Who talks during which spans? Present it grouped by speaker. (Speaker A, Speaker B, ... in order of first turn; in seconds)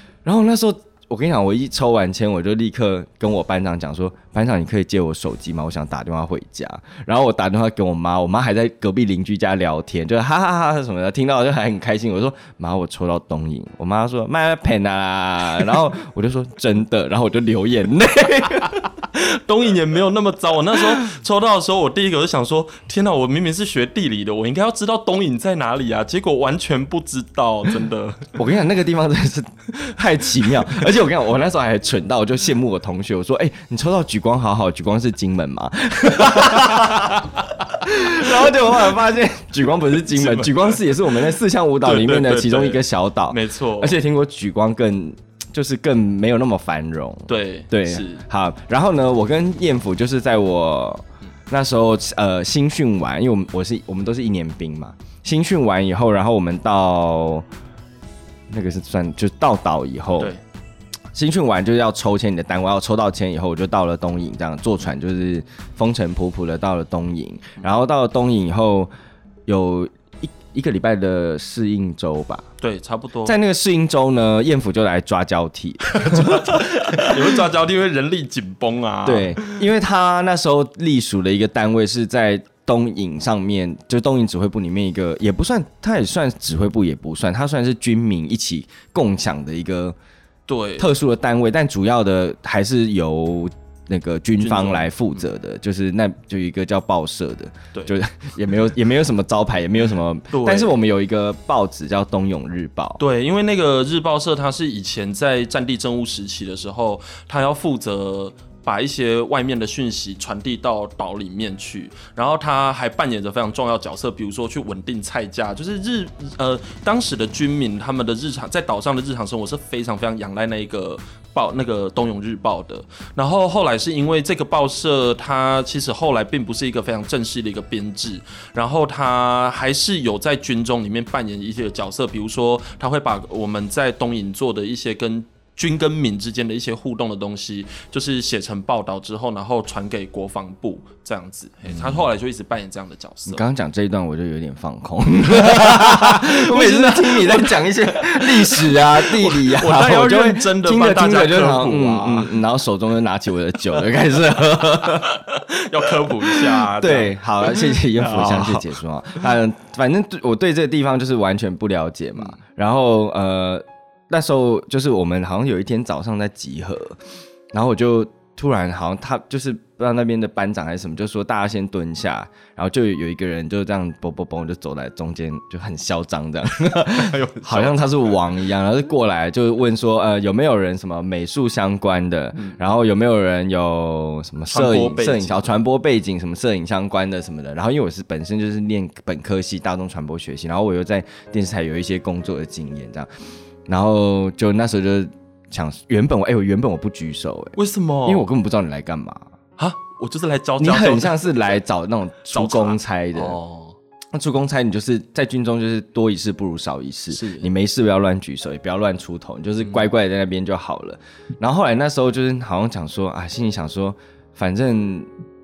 Speaker A: 0.2-18.8, 28.4-57.5, 58.5-60.3, 61.1-68.9, 69.5-72.5, 73.2-77.2, 79.1-90.0, 90.8-103.0, 141.7-142.0, 143.3-155.1, 156.3-167.0, 167.5-193.1, 193.7-199.3, 200.6-203.4, 204.1-215.1
Speaker B: 18.8-28.3, 36.3-37.3, 40.1-41.2, 41.8-44.0, 47.3-48.2, 72.6-73.4, 75.9-79.6, 90.5-90.9, 94.4-95.2, 100.3-100.7, 103.0-143.4, 145.4-152.3, 154.7-158.8, 176.6-178.3, 182.3-182.6, 184.5-185.5, 197.6-198.3, 199.6-201.2, 202.3-203.8, 207.1-207.5, 209.6-209.9